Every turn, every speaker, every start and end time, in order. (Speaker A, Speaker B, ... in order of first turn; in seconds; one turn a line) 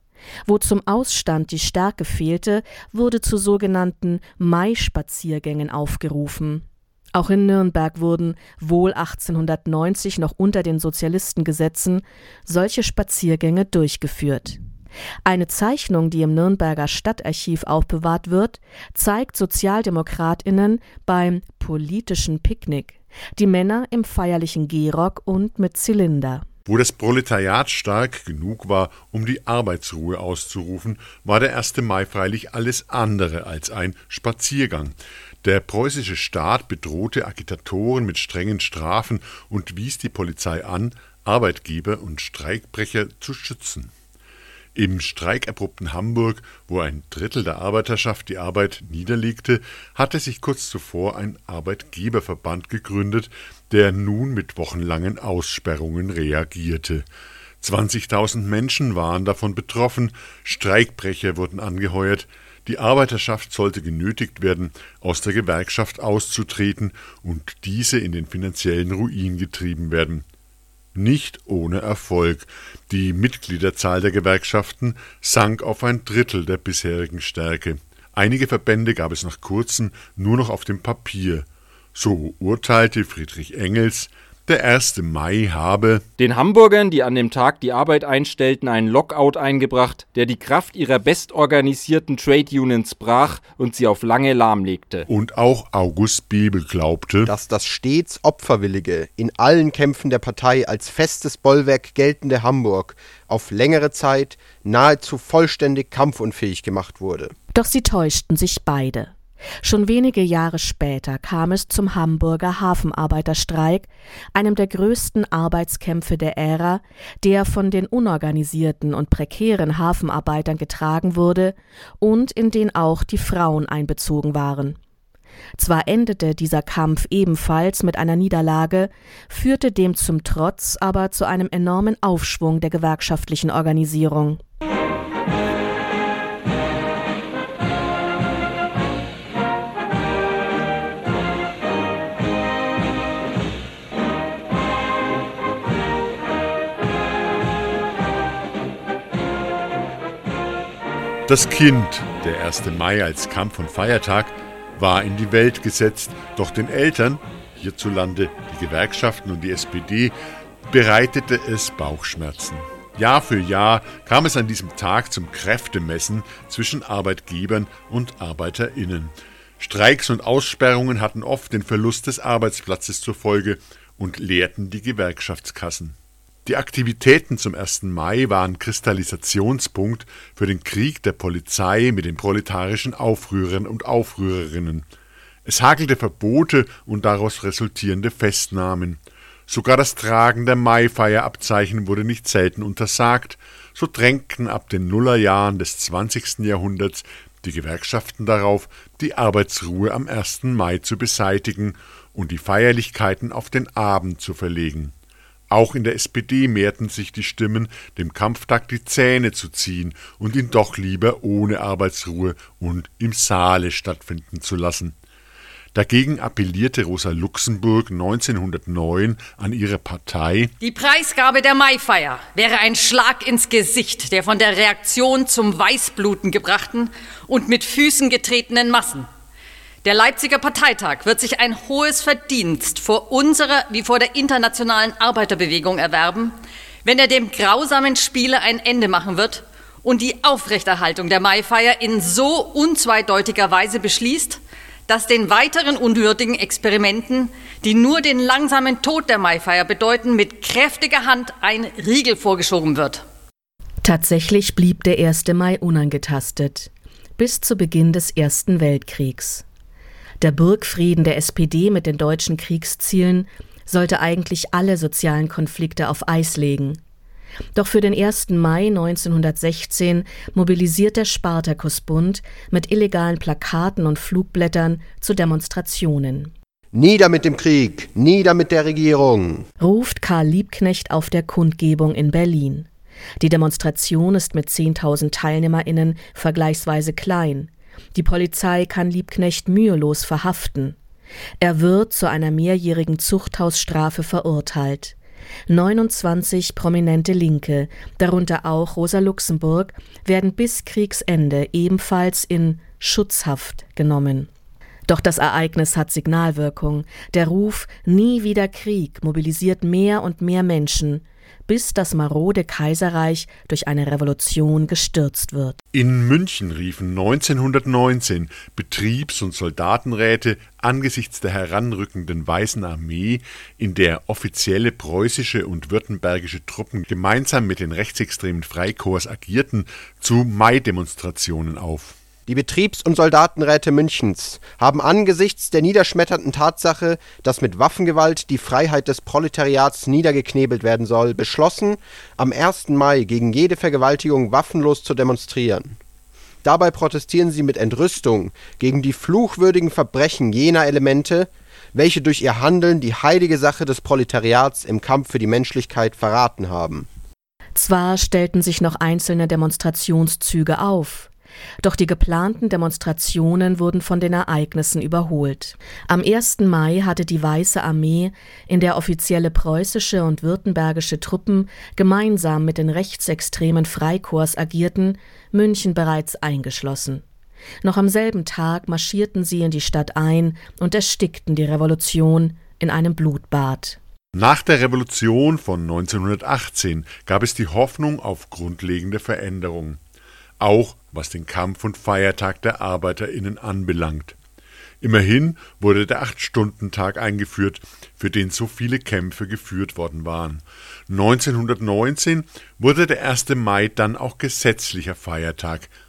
Speaker A: 0.5-14.6
Speaker A: 15.2-26.5
Speaker B: 26.7-43.9
Speaker B: 44.8-57.0
Speaker B: 57.6-70.2
Speaker B: 71.0-86.1
Speaker C: 86.2-95.1
Speaker B: 95.1-97.3
Speaker D: 97.2-107.3
Speaker A: 107.5-124.8
Speaker A: 125.6-134.4
Speaker B: 151.3-160.2
Speaker B: 160.7-184.9
Speaker B: 185.4-204.9
Speaker B: 205.5-215.0
Speaker B: 215.7-220.5
Speaker E: 220.6-229.1
Speaker E: 229.8-253.0
Speaker A: 253.8-259.4
Speaker A: 260.2-266.8
Speaker A: 267.6-276.3
Speaker D: 276.7-279.5
Speaker A: 279.6-282.7
Speaker A: 283.2-290.8
Speaker A: 291.4-294.9
Speaker A: 295.5-304.3
Speaker A: 304.9-315.6
Speaker B: 315.7-332.0
Speaker D: 332.3-345.8
Speaker D: 346.4-356.9
Speaker A: 357.6-361.1
Speaker A: 361.6-377.0
Speaker A: 377.6-383.8
Speaker B: 384.1-389.8
Speaker B: 390.4-394.2
Speaker B: 394.8-405.7